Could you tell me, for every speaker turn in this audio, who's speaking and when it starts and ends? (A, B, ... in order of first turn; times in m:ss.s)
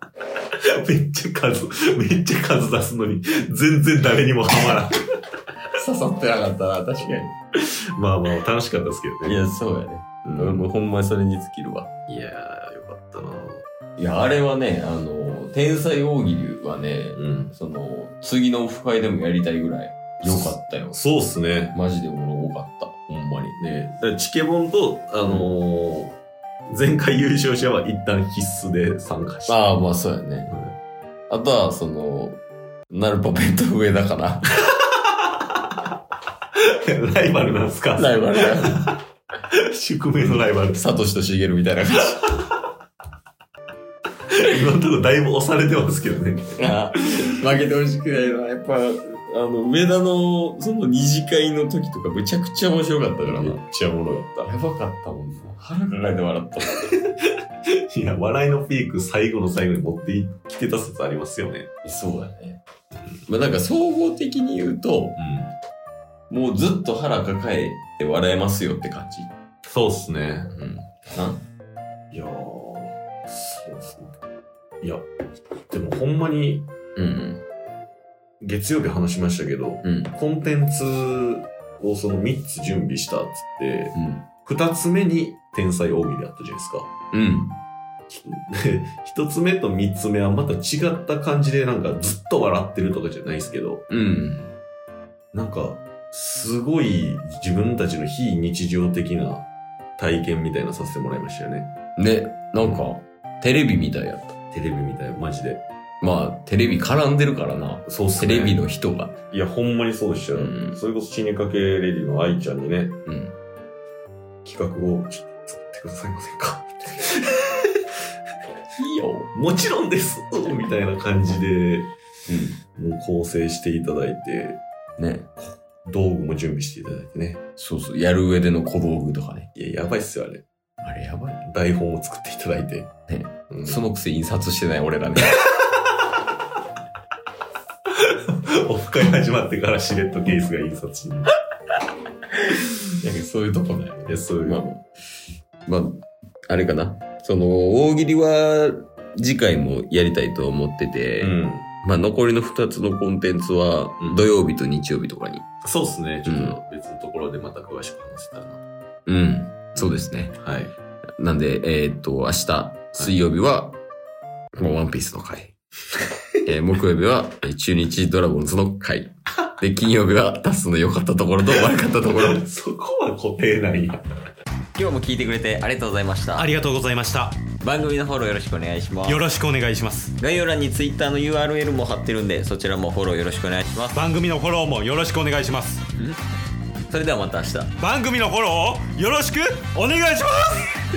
0:00.8-0:05.0 A
0:05.8-0:07.3 B
0:07.9-0:09.4 A
0:09.2-0:11.9 B
0:10.2-0:10.7 A
0:12.1-0:13.6 A
0:14.0-0:21.0 B
0:17.2-0:17.5 A
0:20.2-0:21.8 A
0:21.7-0:23.6 B
0:23.6-0:26.2 A
0:26.7-0:29.6 A
0:29.5-0:30.5 B
0:30.5-0:30.7 A
0:31.3-0:34.5 B
0:36.7-0:39.0 A
0:37.9-0:38.9 B
0:39.6-0:40.8 A
0:40.2-0:42.2 B
0:44.4-0:46.6 A
0:46.6-0:53.6 B
0:53.2-0:54.5 A
0:54.4-0:56.8 B
0:57.9-1:01.7 A
1:01.8-1:02.6 B
1:03.3-1:05.2 B
1:05.2-1:05.5 A
1:06.3-1:09.3 B
1:09.7-1:10.5 A
1:10.5-1:11.4 B
1:12.1-1:14.1 A
1:14.8-1:15.1 A
1:15.7-1:16.7 A
1:17.0-1:17.4 B
1:18.4-1:26.9 A
1:19.8-1:20.1 B
1:23.9-1:24.2 B
1:27.1-1:27.6 B
1:28.1-1:33.8 A
1:33.9-1:34.5 B
1:35.3-1:41.7 A
1:42.0-1:44.4 B
1:44.5-1:45.6 A
1:46.0-1:49.2 B
1:47.8-1:48.6 A
1:49.3-1:53.0 A
1:50.3-1:50.8 B
1:53.0-1:53.3 B
1:54.4-1:57.7 A
1:58.8-1:59.3 B
1:59.3-2:01.9 A
2:02.3-2:02.6 B
2:02.8-2:04.6 A
2:05.0-2:05.3 B
2:05.4-2:07.4 A
2:07.6-2:09.5 B
2:09.5-2:10.4 A
2:10.8-2:11.4 B
2:11.4-2:12.9 A
2:13.1-2:15.4 B
2:13.5-2:13.8 A
2:18.0-2:21.3 A
2:22.6-2:24.8 B
2:24.0-2:24.6 A
2:25.6-2:35.5 B
2:31.2-2:31.7 A
2:34.0-2:34.2 A
2:35.6-2:38.6 A
2:36.2-2:36.6 B
2:39.1-2:40.4 B
2:39.7-2:40.7 A
2:41.2-2:43.8 B
2:44.5-2:45.5 B
2:46.4-2:52.4 B
2:52.2-2:54.0 A
2:54.7-2:56.5 B
2:56.3-2:57.4 C
2:57.6-2:59.3 B
2:59.0-3:00.1 C
3:00.2-3:04.0 B
3:03.9-3:05.8 C
3:06.9-3:07.8 B
3:07.8-3:10.7 C